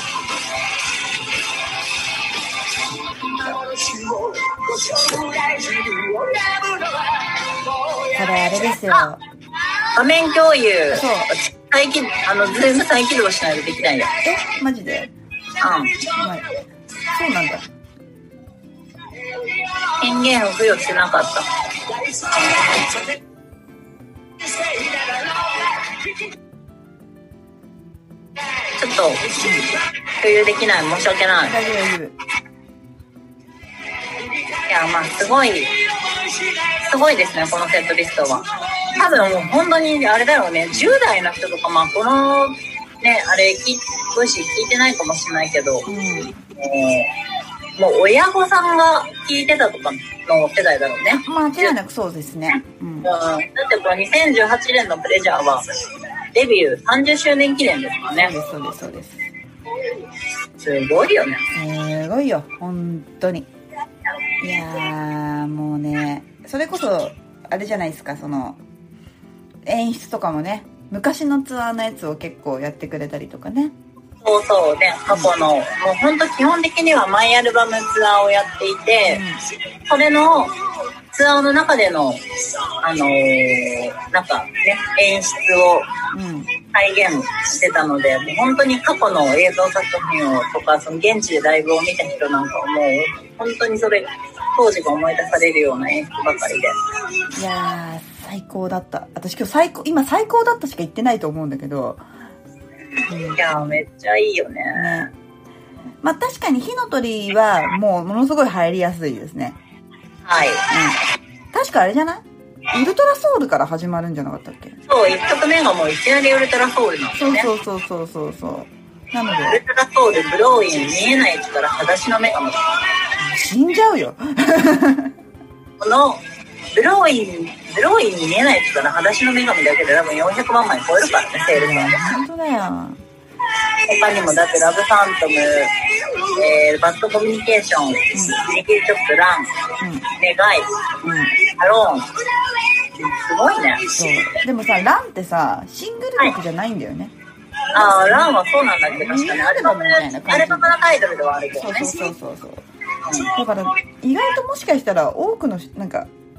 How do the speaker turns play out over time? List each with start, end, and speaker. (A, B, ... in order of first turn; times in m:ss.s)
0:05.1-0:05.4 A
0:08.1-0:09.2 B
0:09.9-0:14.1 A
0:10.9-0:11.3 B
0:14.2-0:15.1 B
0:15.6-0:16.0 A
0:16.0-0:16.5 B
0:17.1-0:17.6 B
0:20.0-0:21.5 A
0:28.8-0:29.3 A
0:29.4-0:29.7 B
0:30.2-0:31.5 A
0:31.4-0:32.2 B
0:34.7-0:35.7 A
0:36.8-0:45.9 A
0:39.1-0:39.6 B
0:45.9-0:46.4 B
0:46.6-0:47.1 A
0:47.8-0:51.7 A
0:51.1-0:53.1 B
0:53.0-0:55.6 A
0:56.3-0:58.3 A
0:58.1-0:59.2 B
1:00.6-1:01.4 A
1:01.5-1:03.5 B
1:04.4-1:08.6 B
1:09.6-1:13.7 B
1:14.2-1:19.2 A
1:19.0-1:19.4 B
1:19.9-1:20.5 A
1:21.1-1:22.2 A
1:22.8-1:25.9 A
1:26.1-1:26.5 B
1:26.7-1:36.8 A
1:37.3-1:42.0 B
1:43.1-1:43.4 B
1:43.3-1:45.0 A
1:44.7-1:45.1 B
1:46.0-1:49.6 B
1:50.2-1:50.6 A
1:50.7-1:51.0 B
1:51.5-1:54.8 B
1:54.9-1:57.5 A
1:57.1-1:59.6 B
1:59.5-2:02.6 A
2:03.2-2:05.1 B
2:05.8-2:12.2 A
2:11.5-2:13.0 B
2:13.9-2:15.7 A
2:16.3-2:19.5 A
2:18.1-2:18.4 B
2:19.8-2:20.1 B
2:20.2-2:20.7 A
2:21.0-2:21.4 B
2:21.6-2:22.1 A
2:22.9-2:24.0 A
2:24.0-2:27.1 B
2:27.7-2:31.9 A
2:27.8-2:28.3 B
2:29.0-2:30.7 B
2:31.6-2:32.6 B
2:33.0-2:33.3 A
2:33.3-2:36.1 B